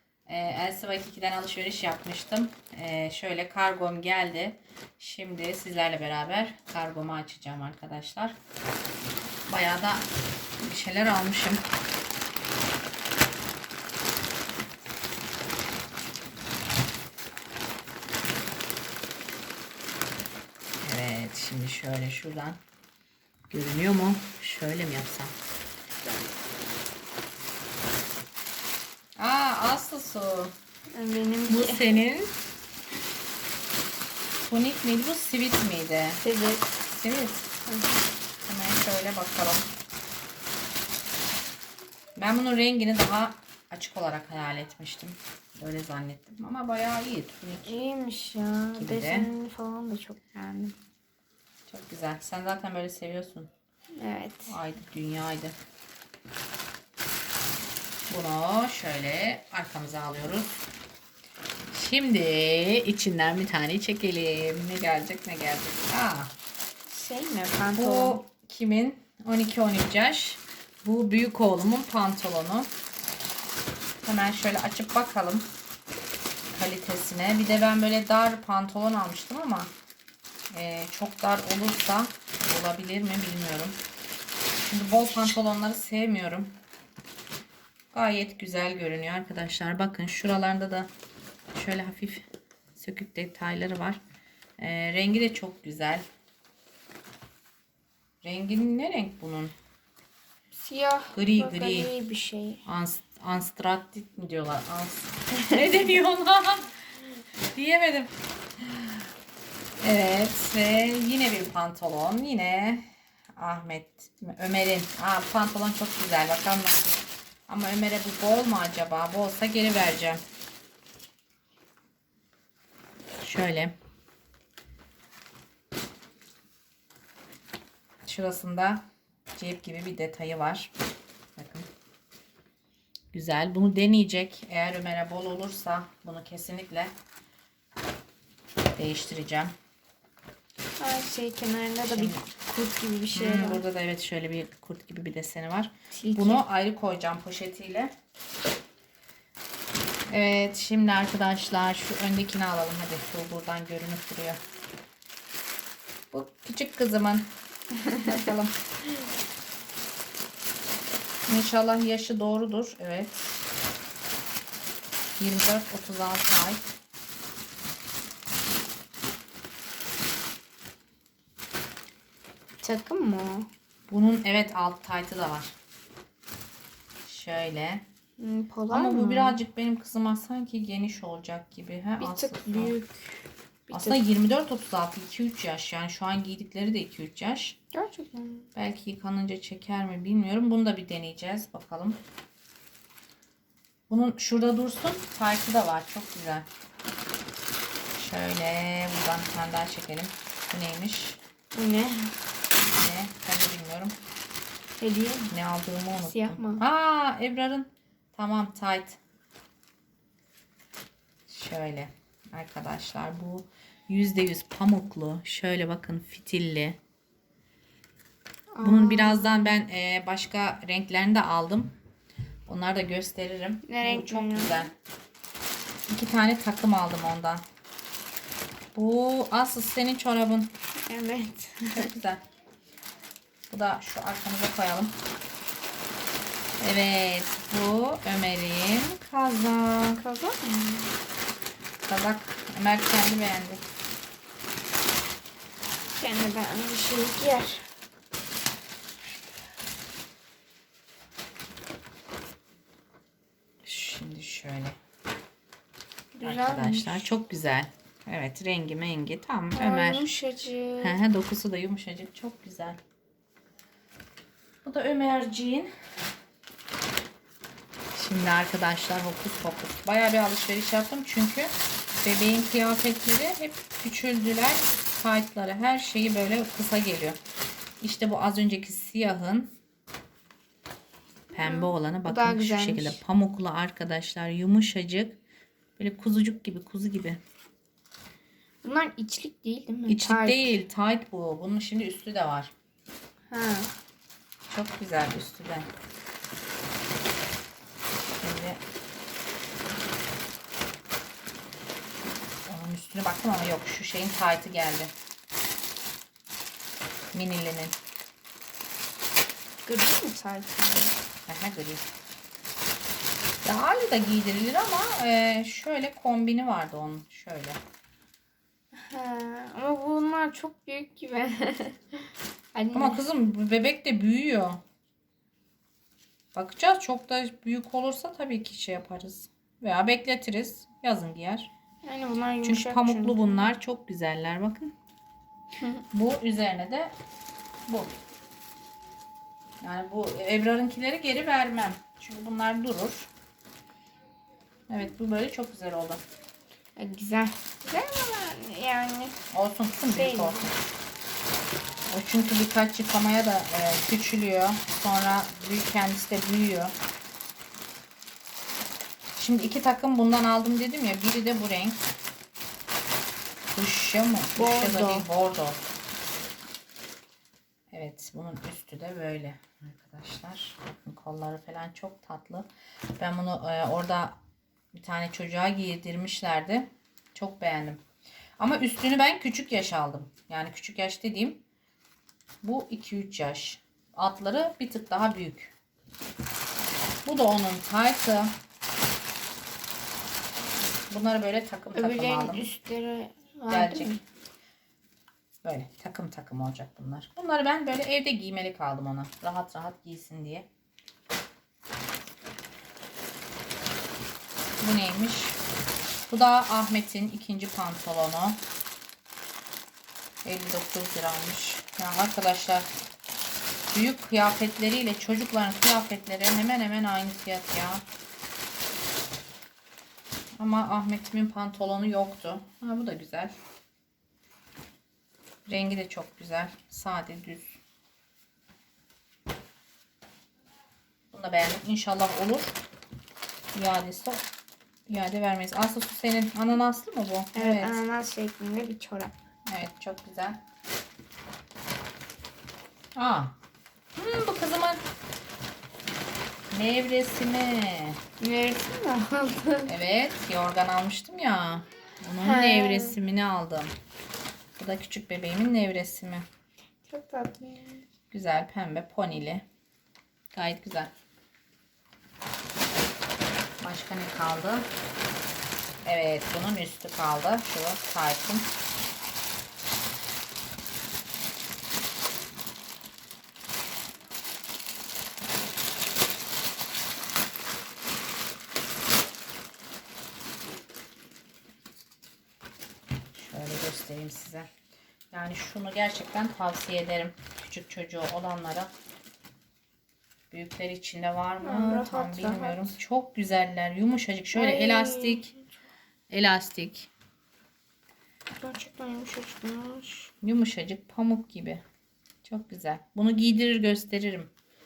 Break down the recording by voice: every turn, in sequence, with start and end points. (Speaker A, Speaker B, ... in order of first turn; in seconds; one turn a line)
Speaker A: 0.3-8.4
Speaker A: 9.5-10.1
Speaker A: 10.6-11.7
Speaker A: 20.8-22.6
Speaker A: 23.5-25.4
Speaker B: 26.0-26.3
Speaker A: 29.2-30.6
Speaker B: 30.9-32.0
Speaker A: 31.5-32.4
Speaker A: 34.4-36.2
Speaker B: 36.2-36.7
Speaker A: 36.9-37.5
Speaker B: 37.7-38.1
Speaker A: 38.5-39.7
Speaker A: 42.2-47.8
Speaker B: 47.7-50.8
Speaker A: 48.8-49.3
Speaker A: 51.7-53.5
Speaker B: 54.0-54.5
Speaker A: 54.5-55.6
Speaker A: 58.1-60.5
Speaker A: 61.7-66.3
Speaker B: 66.9-68.2
Speaker A: 67.8-72.7
Speaker A: 74.0-75.5
Speaker A: 76.5-79.7
Speaker A: 80.5-83.8
Speaker A: 84.7-86.6
Speaker A: 87.9-90.9
Speaker A: 91.5-94.0
Speaker A: 94.6-96.1
Speaker A: 98.2-99.5
Speaker B: 100.5-102.6
Speaker A: 101.2-101.9
Speaker A: 102.7-109.0
Speaker A: 109.8-112.9
Speaker A: 113.4-120.2
Speaker A: 123.2-123.7
Speaker A: 128.1-128.8
Speaker A: 129.3-130.7
Speaker A: 131.4-131.7
Speaker A: 133.1-136.9
Speaker A: 138.8-139.6
Speaker B: 140.8-143.6
Speaker A: 141.8-142.2
Speaker A: 143.1-147.9
Speaker B: 145.9-146.4
Speaker A: 150.1-154.4
Speaker A: 156.1-157.3
Speaker A: 157.9-158.6
Speaker A: 161.3-163.3
Speaker A: 165.2-166.7
Speaker B: 172.6-173.5
Speaker A: 173.9-175.6
Speaker A: 177.1-177.8
Speaker B: 178.2-179.4
Speaker A: 178.7-182.8
Speaker B: 182.0-184.0
Speaker A: 183.7-187.6
Speaker B: 187.7-188.5
Speaker A: 188.6-192.0
Speaker A: 193.9-196.5
Speaker A: 197.9-201.2
Speaker B: 201.5-202.2
Speaker A: 202.6-203.9
Speaker B: 204.8-205.3
Speaker A: 205.3-209.0
Speaker B: 206.0-206.6
Speaker A: 211.3-216.8
Speaker B: 218.6-219.4
Speaker A: 218.6-221.8
Speaker A: 222.5-224.7
Speaker B: 223.7-224.7
Speaker A: 225.9-227.4
Speaker A: 228.8-230.6
Speaker B: 230.8-231.9
Speaker A: 231.8-232.2
Speaker A: 233.5-235.0
Speaker A: 236.6-240.0
Speaker B: 240.0-241.0
Speaker A: 241.8-243.6
Speaker B: 246.0-247.7
Speaker A: 253.6-254.8
Speaker B: 256.1-257.2
Speaker A: 256.2-260.1
Speaker B: 259.5-261.0
Speaker A: 260.8-262.8
Speaker A: 264.6-265.7
Speaker A: 267.9-271.5
Speaker A: 272.0-277.2
Speaker A: 277.8-279.5
Speaker B: 281.3-283.0
Speaker A: 281.3-285.2
Speaker A: 285.8-287.2
Speaker B: 288.6-290.5
Speaker A: 289.9-292.5
Speaker B: 293.3-293.7
Speaker A: 294.5-295.7
Speaker A: 298.2-298.6
Speaker A: 302.5-304.9
Speaker A: 307.1-307.8
Speaker B: 309.6-311.0
Speaker A: 311.3-311.9
Speaker A: 313.4-317.6
Speaker B: 318.8-323.0
Speaker A: 322.7-324.6
Speaker A: 326.3-331.5
Speaker B: 331.8-333.4
Speaker A: 332.4-334.7
Speaker A: 335.9-336.9
Speaker A: 337.7-337.9
Speaker A: 339.6-343.1
Speaker A: 344.7-346.0
Speaker B: 346.8-349.2
Speaker A: 349.3-350.5
Speaker B: 349.8-350.5
Speaker A: 351.9-356.8
Speaker A: 359.2-361.8
Speaker A: 363.5-365.6
Speaker B: 364.4-365.1
Speaker A: 367.7-372.5
Speaker A: 373.0-374.2
Speaker A: 374.8-377.8
Speaker A: 378.4-381.4
Speaker A: 382.4-385.5
Speaker A: 387.1-388.3
Speaker A: 390.9-392.4
Speaker B: 391.8-394.0
Speaker A: 393.5-393.9
Speaker A: 395.4-400.5
Speaker A: 404.6-405.4
Speaker A: 406.1-408.4
Speaker A: 410.2-412.7
Speaker A: 413.7-417.8
Speaker A: 420.4-423.3
Speaker A: 425.5-427.6
Speaker A: 431.1-432.6
Speaker A: 433.5-434.2
Speaker A: 434.9-437.8
Speaker B: 437.3-439.1
Speaker A: 439.5-440.4
Speaker A: 442.9-443.4
Speaker A: 444.0-444.8
Speaker A: 446.5-448.0
Speaker B: 448.2-449.7
Speaker A: 449.7-453.8
Speaker B: 452.2-453.0
Speaker A: 454.6-456.3
Speaker B: 456.9-457.8
Speaker A: 458.1-459.4
Speaker A: 460.3-460.9
Speaker A: 463.6-464.7
Speaker A: 465.8-468.5
Speaker A: 483.1-484.5
Speaker A: 485.1-488.7
Speaker A: 490.3-495.3
Speaker B: 491.4-492.8
Speaker B: 494.3-495.4
Speaker A: 496.1-496.9
Speaker B: 498.4-500.1
Speaker A: 500.2-501.6
Speaker A: 502.2-504.3